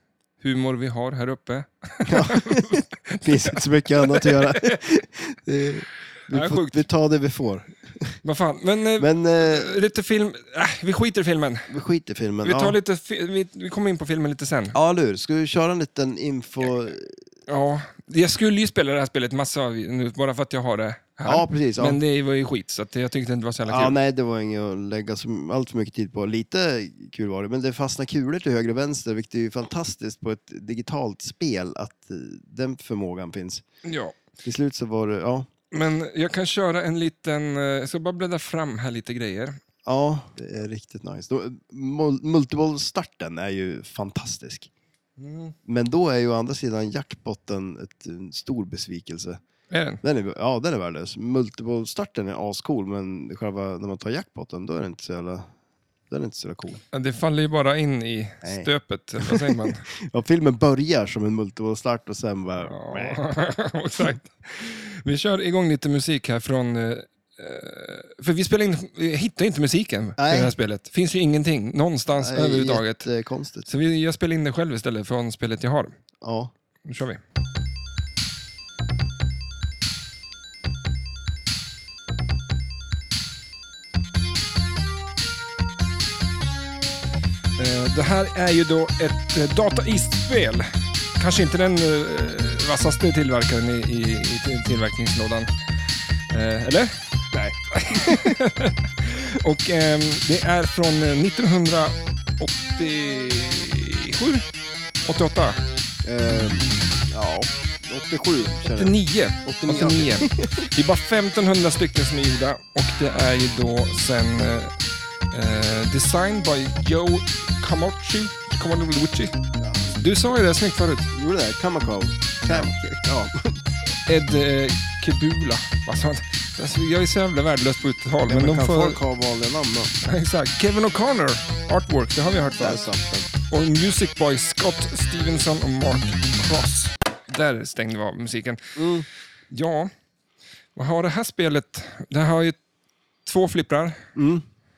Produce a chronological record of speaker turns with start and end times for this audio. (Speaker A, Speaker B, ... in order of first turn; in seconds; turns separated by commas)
Speaker A: 0.4-4.8, Speaker B: 2.1-8.2, Speaker A: 6.3-6.8, Speaker A: 8.2-11.7, Speaker B: 9.0-9.8, Speaker B: 11.7-12.8, Speaker A: 12.4-14.8, Speaker B: 14.7-17.2, Speaker A: 17.5-23.9, Speaker B: 21.2-22.0, Speaker B: 23.7-33.6, Speaker A: 33.8-34.2, Speaker B: 34.4-35.5, Speaker A: 35.7-39.6, Speaker B: 39.9-44.7, Speaker A: 45.2-45.5, Speaker B: 45.7-49.4, Speaker A: 49.7-50.0, Speaker B: 50.0-55.5, Speaker B: 56.1-56.8, Speaker A: 56.9-59.8, Speaker B: 58.4-58.7, Speaker B: 59.2-63.2, Speaker A: 62.6-73.1, Speaker B: 70.2-70.5, Speaker B: 72.2-73.7, Speaker A: 73.7-76.0, Speaker B: 76.2-76.5, Speaker A: 76.9-77.2, Speaker A: 87.6-95.5, Speaker A: 96.3-97.0, Speaker B: 97.3-98.3, Speaker A: 97.7-104.5, Speaker A: 105.0-105.6, Speaker B: 106.0-110.7, Speaker A: 108.8-114.7, Speaker A: 115.3-119.4, Speaker B: 119.6-120.0, Speaker A: 119.9-121.1, Speaker B: 121.1-123.8, Speaker A: 124.1-129.0, Speaker B: 128.3-129.9, Speaker A: 130.0-132.9, Speaker B: 132.6-133.3, Speaker A: 133.5-138.6, Speaker B: 138.8-139.1, Speaker A: 139.5-139.9, Speaker A: 140.8-142.6, Speaker A: 143.3-144.0, Speaker B: 144.2-144.4